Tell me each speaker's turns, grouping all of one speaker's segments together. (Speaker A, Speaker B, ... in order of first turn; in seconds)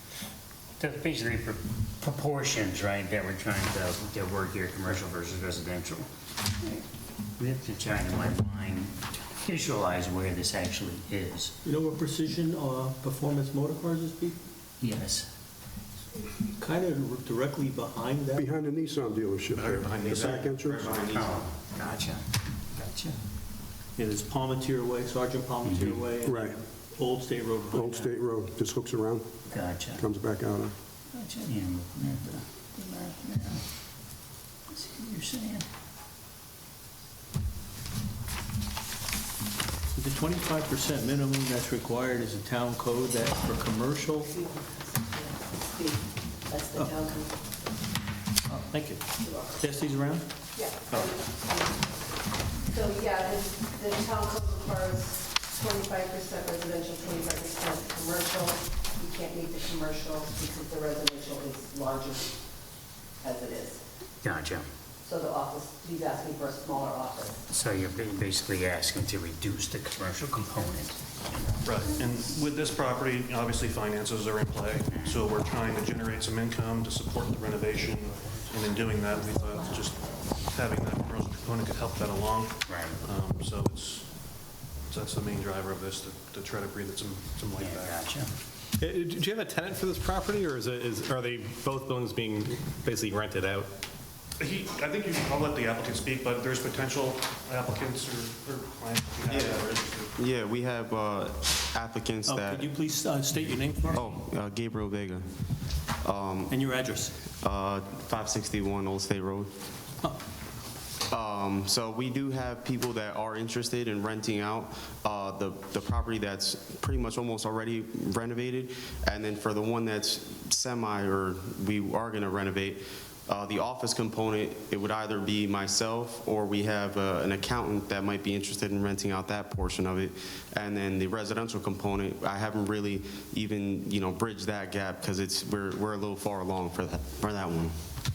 Speaker A: 0.8-6.1, 7.4-11.5, 14.8-15.3, 21.1-23.2, 25.6-26.1, 29.5-30.0, 31.1-33.6, 34.7-35.7, 64.2-64.7, 67.5-71.9, 74.9-75.2, 82.7-83.0, 87.6-88.3
Speaker B: 11.6-14.4, 16.6-18.5, 24.0-28.1, 39.9-44.3, 48.5-50.3, 102.3-104.1, 106.5-107.1
Speaker C: 18.4-20.9, 26.2-26.6, 27.7-29.3, 30.0-30.8
Speaker D: 19.5-21.1, 71.6-88.0, 94.4-100.1
Speaker E: 20.1-21.4, 99.3-99.6, 100.2-102.7, 103.9-105.3, 106.0-106.6, 107.4-109.5, 111.1-137.7
Speaker F: 43.3-48.0, 49.1-62.4, 63.2-63.8, 65.0-67.4, 78.8-80.2
Speaker G: 88.8-93.7